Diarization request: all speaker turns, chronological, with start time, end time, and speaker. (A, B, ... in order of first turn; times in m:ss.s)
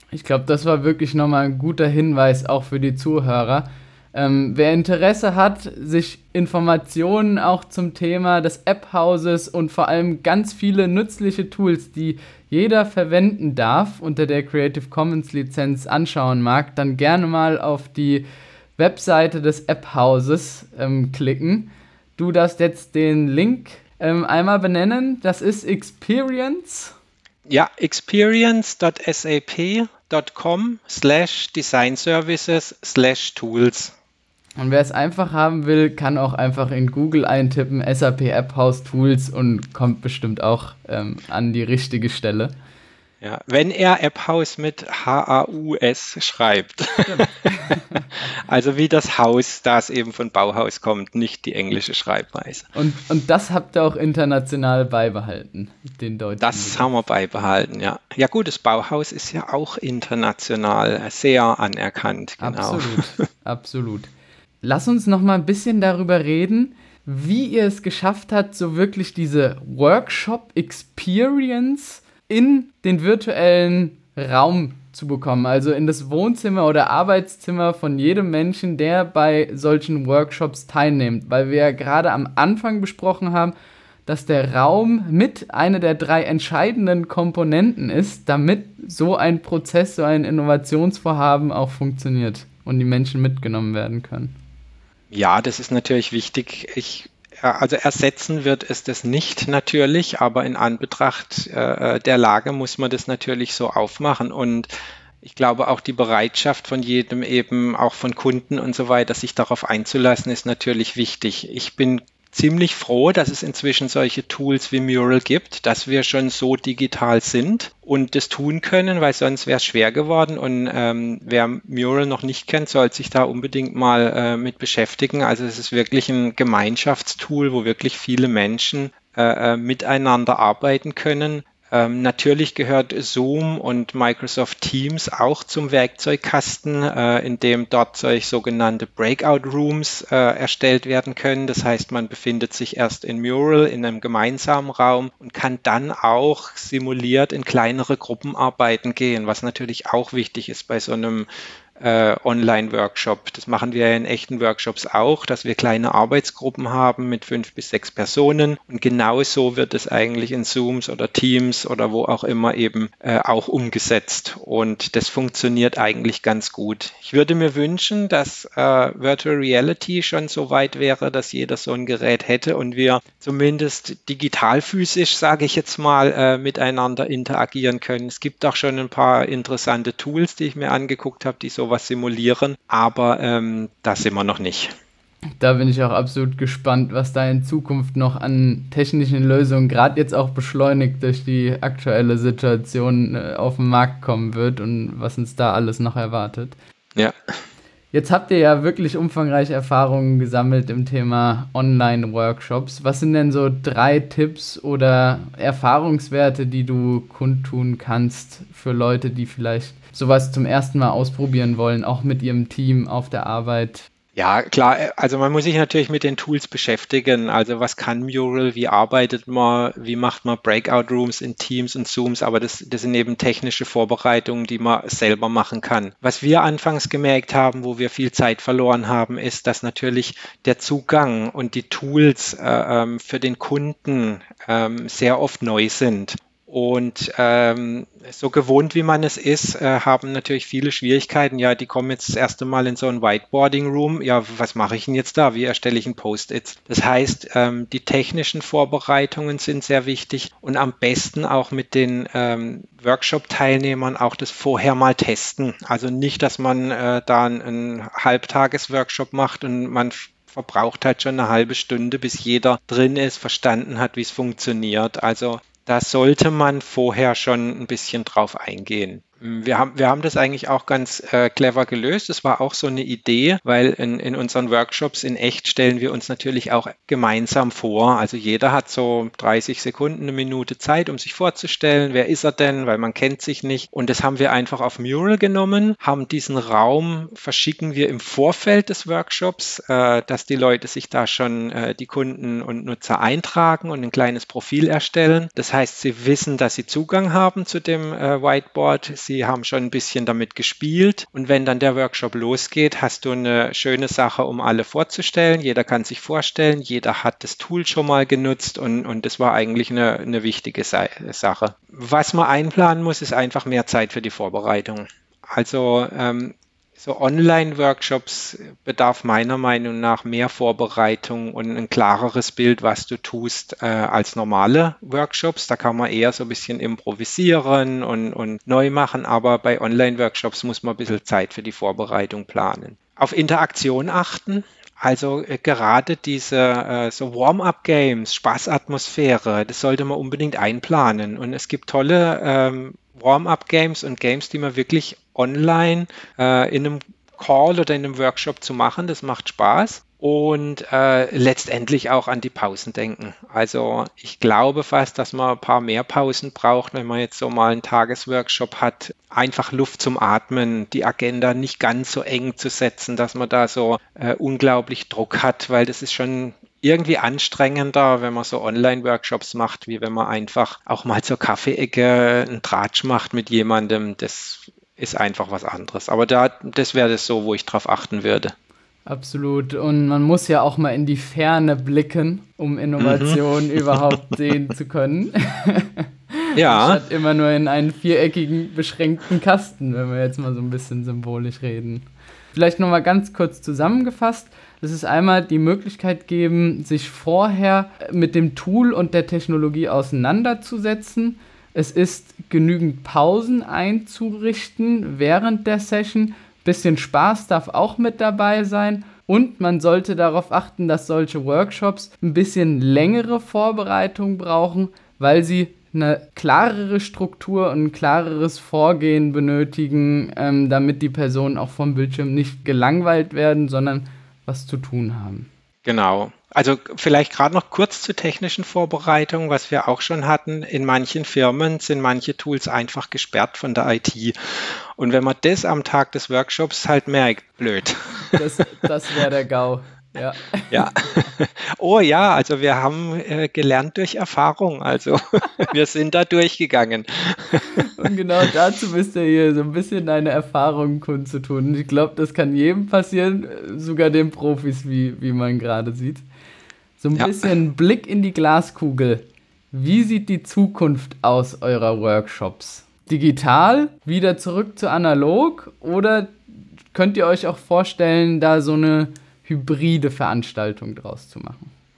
0:00.1-0:18.3 A
0:18.8-0:26.9 A
0:27.5-0:33.9 B
0:34.6-0:42.6 A
0:43.2-0:47.2 B
0:47.0-0:48.1 A
0:48.1-0:52.7 B
0:52.8-0:56.9 A
0:56.4-1:03.2 B
1:02.4-1:04.1 A
1:04.6-1:23.5 A
1:24.1-1:34.3 A
1:35.1-1:44.7 B
1:45.2-3:04.7 B
3:05.4-3:16.6 A
3:17.0-3:17.3 B
3:17.9-3:33.9 A
3:34.2-6:18.4 B
6:18.9-7:05.3 A
6:22.8-6:23.8 B
6:26.4-6:26.8 B
7:05.6-7:18.2 B
7:18.0-7:20.7 A
7:20.5-7:27.6 B
7:27.5-7:36.0 A
7:36.8-7:46.2 A
7:37.0-7:37.3 B
7:46.7-7:51.5 A